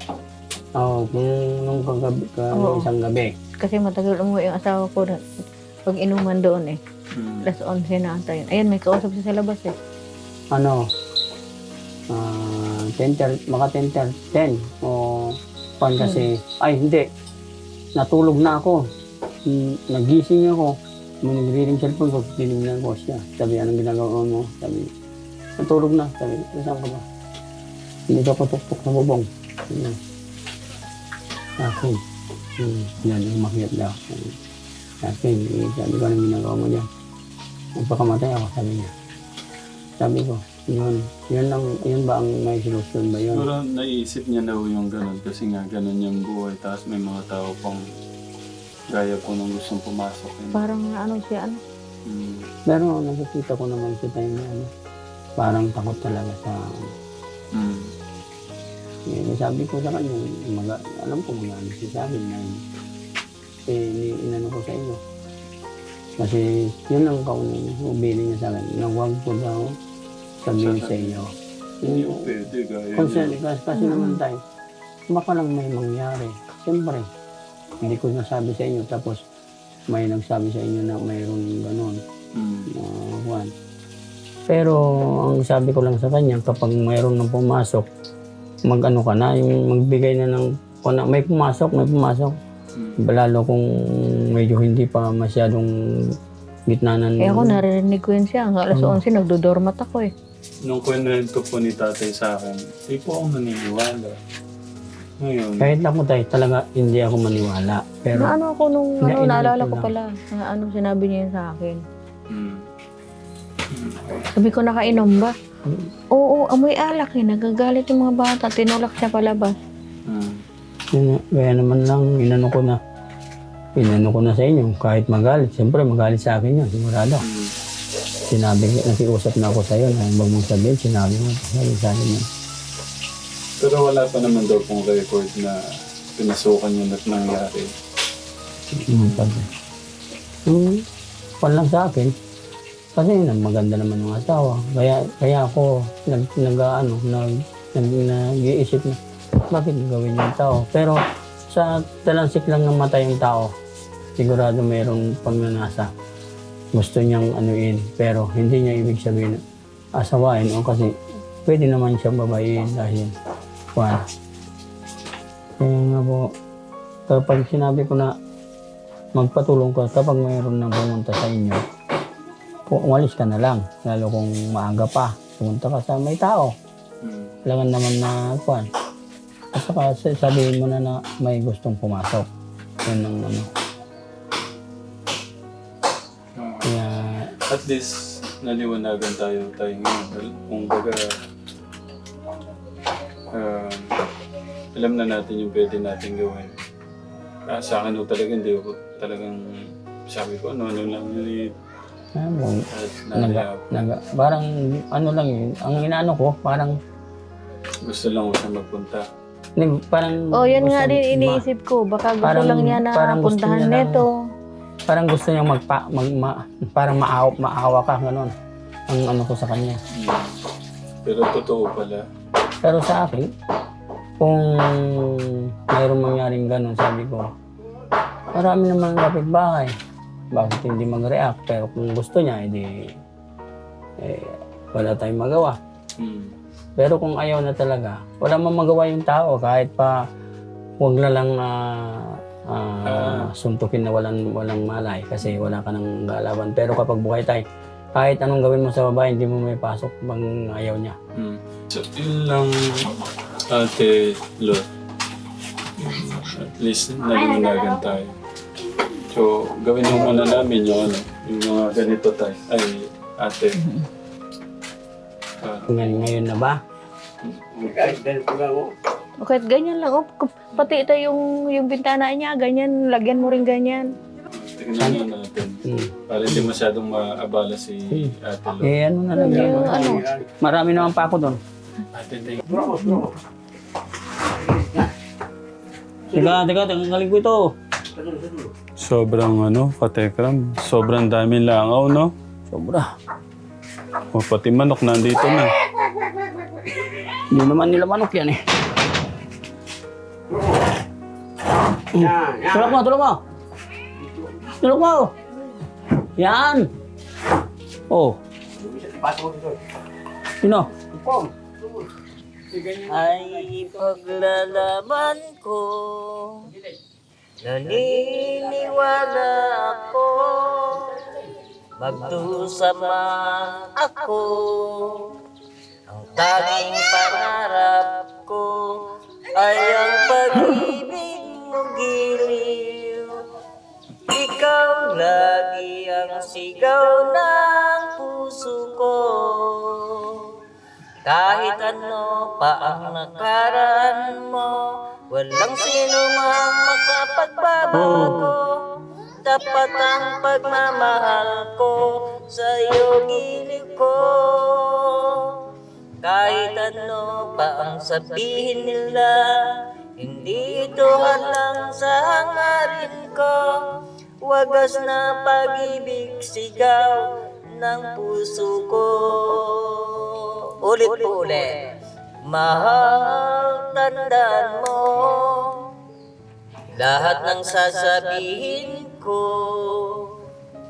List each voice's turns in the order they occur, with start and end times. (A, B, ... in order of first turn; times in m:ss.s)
0:00.8-0:03.3 A
0:02.6-0:02.9 B
0:03.6-0:05.2 B
0:05.9-0:06.8 B
0:07.1-0:07.5 C
0:07.4-0:09.7 B
0:10.5-0:10.8 A
0:12.1-0:17.0 A
0:16.0-0:16.2 B
0:17.9-0:18.8 A
0:19.4-0:24.9 A
0:25.6-0:27.0 A
0:28.1-0:30.0 A
0:31.6-0:32.0 A
0:32.6-0:34.3 A
0:35.0-0:36.9 A
0:37.8-0:38.9 A
0:40.0-0:43.5 A
0:43.3-0:47.8 C
0:48.9-0:50.6 C
0:50.5-0:51.6 B
0:52.0-0:52.5 C
0:52.7-0:54.7 A
0:55.4-0:56.8 A
0:57.5-0:57.9 C
0:59.1-1:02.6 A
1:03.6-1:05.0 A
1:06.2-1:09.8 A
1:10.4-1:11.3 A
1:10.5-1:11.2 C
1:11.8-1:12.3 A
1:11.8-1:13.4 C
1:13.0-1:14.4 A
1:13.7-1:14.2 B
1:15.1-1:17.1 A
1:17.8-1:19.2 A
1:19.9-1:22.0 A
1:22.3-1:22.7 C
1:22.7-1:23.5 A
1:24.5-1:27.9 A
1:28.6-1:32.3 A
1:32.8-1:33.0 C
1:33.0-1:35.7 A
1:36.7-1:37.6 A
1:37.2-1:40.1 B
1:38.7-1:39.0 A
1:40.6-1:44.2 C
1:45.2-1:45.7 C
1:45.6-1:48.4 A
1:48.1-1:51.8 B
1:49.0-1:49.9 A
1:52.3-1:52.7 C
1:53.7-1:54.0 C
1:54.3-1:55.3 B
1:56.1-1:59.6 B
2:00.0-2:00.4 C
2:00.9-2:02.8 A
2:03.8-2:07.2 A
2:07.2-2:07.6 C
2:08.2-2:12.2 A
2:13.6-2:15.6 C
2:16.1-2:17.7 C
2:18.8-2:19.5 A
2:18.9-2:19.4 C
2:20.4-2:20.8 A
2:21.4-2:22.1 A
2:22.9-2:29.0 A
2:29.5-2:33.5 A
2:34.2-2:35.9 A
2:36.7-2:39.4 A
2:40.0-2:40.9 A
2:41.4-2:43.1 A
2:43.7-2:44.0 A
2:45.6-2:46.2 A
2:47.1-2:48.1 A
2:49.1-2:51.6 A
2:52.6-2:56.5 A
2:57.0-2:57.4 C
2:57.4-2:58.6 A
2:59.5-3:02.3 A
3:02.8-3:03.5 A
3:06.4-3:06.7 C
3:06.6-3:07.3 A
3:07.5-3:11.1 C
3:13.3-3:14.0 C
3:14.7-3:16.6 C
3:17.5-3:21.5 C
3:22.2-3:26.7 A
3:22.7-3:23.6 C
3:27.8-3:29.0 C
3:29.6-3:31.4 A
3:30.4-3:34.1 B
3:32.2-3:34.0 A
3:34.9-3:38.3 A
3:38.9-3:39.8 A
3:39.9-3:40.4 C
3:41.0-3:42.0 C
3:42.6-3:43.3 A
3:44.2-3:47.3 A
3:48.3-3:49.7 A
3:50.3-3:52.7 A
3:54.0-3:55.5 A
3:56.0-3:56.3 C
3:56.8-3:59.9 A
4:00.8-4:07.4 A
4:02.9-4:03.3 C
4:07.9-4:10.9 A
4:11.2-4:12.9 C
4:13.5-4:14.6 C
4:15.8-4:18.2 C
4:19.1-4:23.6 C
4:25.4-4:25.8 C
4:25.7-4:26.6 A
4:27.2-4:28.1 C
4:28.0-4:28.7 D
4:29.2-4:33.9 B
4:34.3-4:38.8 C
4:34.8-4:35.0 A
4:35.7-4:36.5 A
4:37.9-4:41.4 A
4:39.2-4:40.1 B
4:41.9-4:42.5 C
4:42.5-4:43.1 D
4:42.5-4:43.1 B
4:44.6-4:44.8 D
4:46.1-4:47.4 A
4:48.0-4:48.5 D
4:48.8-4:52.1 C
4:52.5-4:52.9 A
4:54.1-4:55.5 C
4:56.2-4:58.4 A
5:01.9-5:03.1 A
5:02.2-5:02.7 D
5:04.6-5:05.1 A
5:06.2-5:06.7 A
5:07.9-5:08.2 A
5:08.6-5:09.6 D
5:10.4-5:10.8 A
5:10.8-5:11.3 D
5:12.6-5:16.5 E
5:17.4-5:21.0 E
5:21.8-5:25.2 E
5:25.9-5:33.2 E
5:34.1-5:40.3 E
5:41.0-5:44.6 E
5:45.1-5:48.6 E
5:47.7-5:48.3 C
5:49.2-5:55.4 E
5:56.0-5:59.4 E
6:00.0-6:03.6 E
6:04.2-6:11.5 E
6:12.2-6:15.7 E
6:16.8-6:20.2 E